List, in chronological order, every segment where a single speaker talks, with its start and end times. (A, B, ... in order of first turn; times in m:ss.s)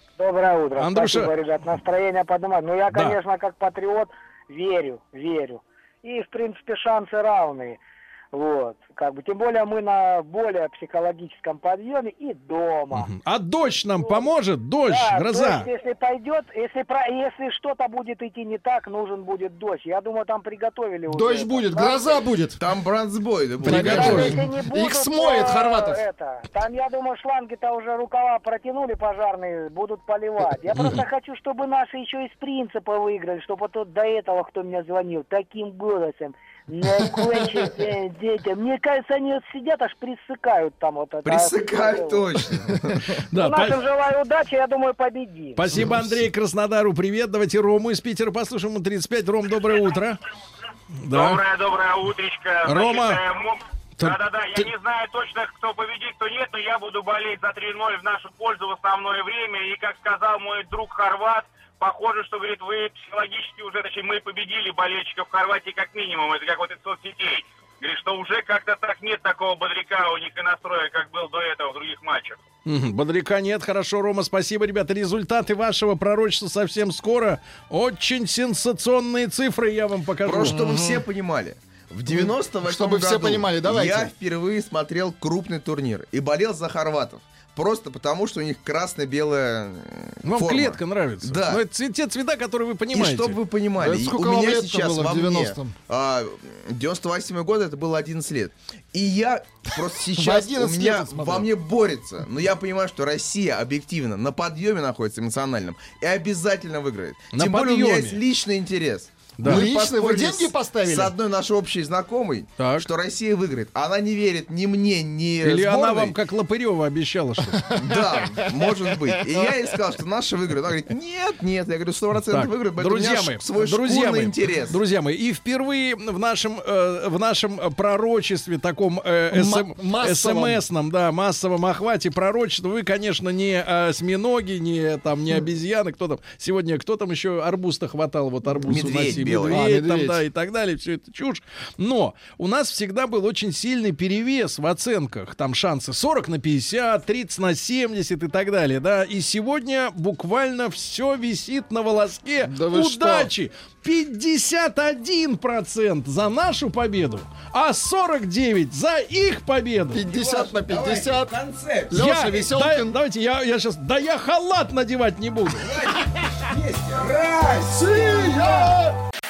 0:00.2-0:07.8 A
0:00.8-0:01.3 B
0:02.9-0:03.2 B
0:08.3-0:13.1 A
0:12.9-0:15.7 B
0:14.0-0:14.3 A
0:14.9-0:22.2 A
0:21.1-0:22.6 C
0:22.6-0:24.3 D
0:23.6-0:24.4 B
0:23.6-0:26.0 C
0:23.9-0:42.3 A
0:41.2-0:42.8 D
0:43.3-0:43.8 B
0:43.3-0:45.8 A
0:45.6-0:50.2 B
0:45.7-0:46.0 C
0:51.0-0:51.4 B
0:51.1-1:12.4 E
0:52.6-0:53.2 B
0:54.0-0:54.7 B
1:12.6-1:20.6 B
1:20.2-1:31.6 D
1:20.3-1:21.0 C
1:22.1-1:24.1 C
1:30.2-1:33.4 B
1:32.9-1:56.2 D
1:33.8-1:35.7 C
1:40.1-1:41.5 C
1:47.3-1:48.2 B
1:49.4-1:49.7 B
1:49.4-1:51.1 C
1:52.6-1:52.9 B
1:55.4-1:57.7 B
1:57.5-1:59.6 C
1:57.7-2:04.8 D
2:02.3-2:40.0 B
2:09.3-2:10.6 C
2:18.5-2:20.2 C
2:18.7-2:19.6 D
2:32.4-2:33.3 C
2:39.9-2:41.3 C
2:40.0-2:42.0 D
2:41.9-2:43.0 C
2:41.9-2:45.7 B
2:45.6-2:48.7 D
2:47.7-2:48.9 C